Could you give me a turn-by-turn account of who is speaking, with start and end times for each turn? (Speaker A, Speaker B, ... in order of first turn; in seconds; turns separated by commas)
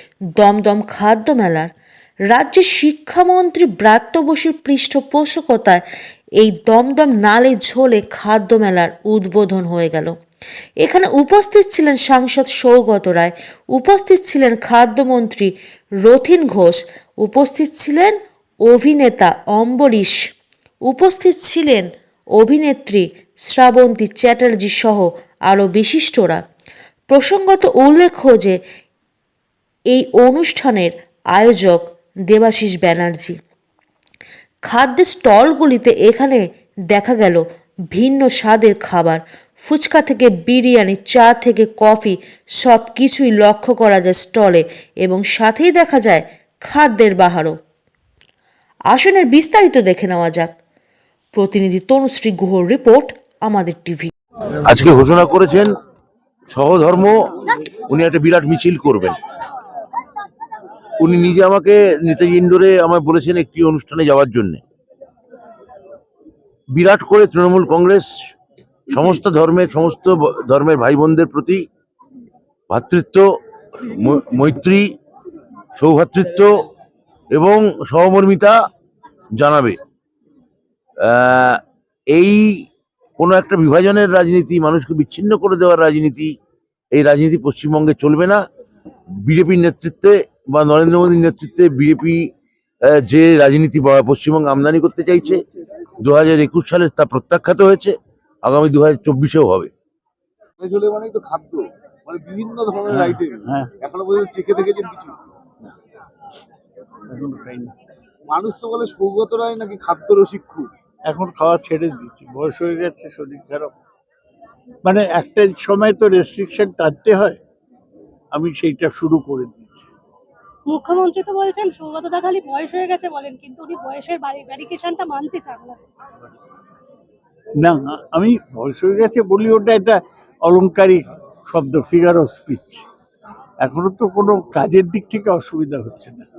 Speaker A: 0.4-1.7, Speaker A: 2.3-5.8, Speaker A: 6.4-10.1, Speaker A: 10.8-18.1, Speaker A: 18.7-20.1, Speaker A: 20.8-26.4, Speaker A: 27.1-28.6, Speaker A: 29.9-33.4, Speaker A: 34.6-37.4, Speaker A: 37.9-47.5, Speaker A: 48.9-50.5, Speaker A: 51.3-54.1, Speaker B: 54.7-55.7, Speaker B: 56.5-57.1, Speaker B: 57.9-59.2, Speaker B: 61.0-64.6, Speaker B: 66.7-68.1, Speaker B: 68.9-71.6, Speaker B: 72.7-73.2, Speaker B: 73.8-74.8, Speaker B: 75.8-76.5, Speaker B: 77.3-78.5, Speaker B: 79.4-79.8, Speaker B: 81.0-81.6, Speaker B: 82.1-82.5, Speaker B: 83.2-86.3, Speaker B: 86.9-88.4, Speaker B: 89.2-92.2, Speaker B: 92.9-95.4, Speaker B: 96.0-99.7, Speaker C: 100.6-105.2, Speaker D: 102.9-103.7, Speaker D: 107.1-107.7, Speaker C: 108.3-110.7, Speaker D: 111.0-113.7, Speaker D: 114.8-117.4, Speaker D: 118.3-119.9, Speaker E: 120.7-125.8, Speaker D: 127.6-132.8, Speaker D: 133.6-136.2